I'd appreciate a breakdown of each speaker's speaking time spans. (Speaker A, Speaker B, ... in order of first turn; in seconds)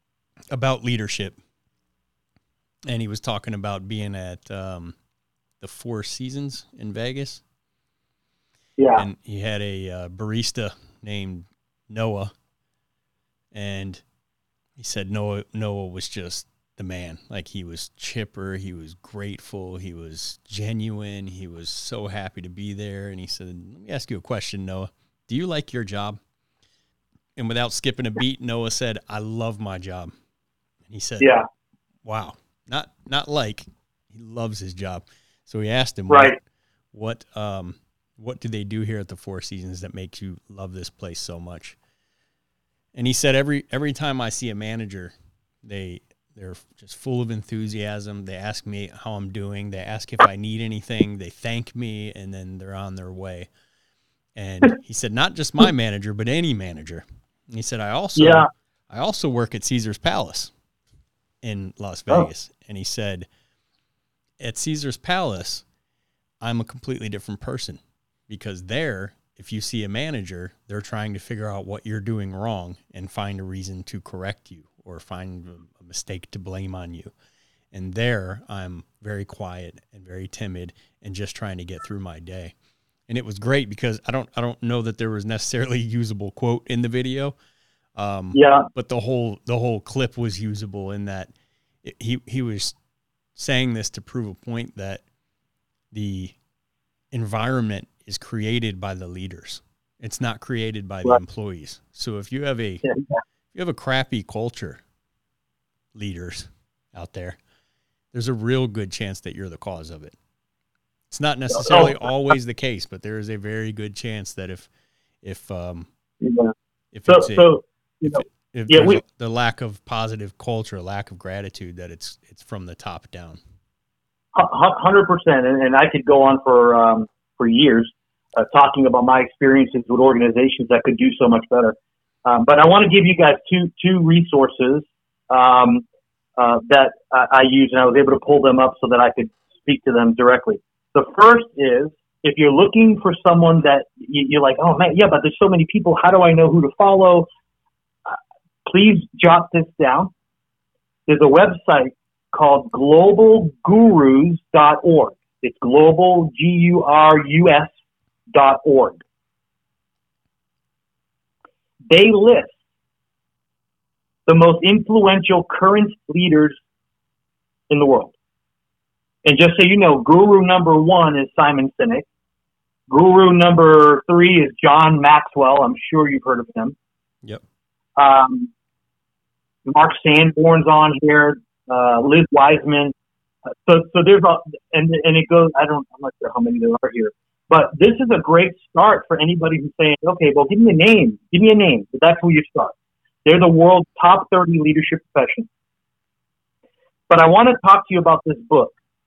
Speaker A: 0.5-1.4, 2.9-4.9, 5.6-7.4, 9.0-12.3, 13.5-14.0, 14.8-26.2, 27.4-30.1, 30.9-31.3, 32.0-36.4, 36.9-41.8, 42.9-45.1, 45.6-53.5, 54.4-60.5, 61.4-63.3, 64.4-65.6, 66.4-77.1, 77.7-82.5, 83.1-87.3, 88.0-91.3, 91.8-92.7, 93.4-95.0, 95.9-96.3, 97.1-102.8, 103.5-104.8, 105.9-107.4, 108.1-110.2, 111.1-114.7, 115.2-115.9, 116.9-117.5, 118.0-123.4
Speaker B: 8.8-9.0, 31.2-31.4, 36.1-36.4, 58.2-58.5, 88.3-88.7, 102.8-103.2, 111.5-112.0, 116.2-116.5, 117.1-119.0, 124.3-135.8, 136.4-147.3, 148.1-150.1, 151.1-157.7, 158.3-159.0, 161.9-162.5, 164.3-166.6, 167.7-168.1, 169.2-172.1, 172.9-176.7, 178.0-178.5, 179.7-182.9, 183.7-192.7, 193.2-195.5, 197.1-198.7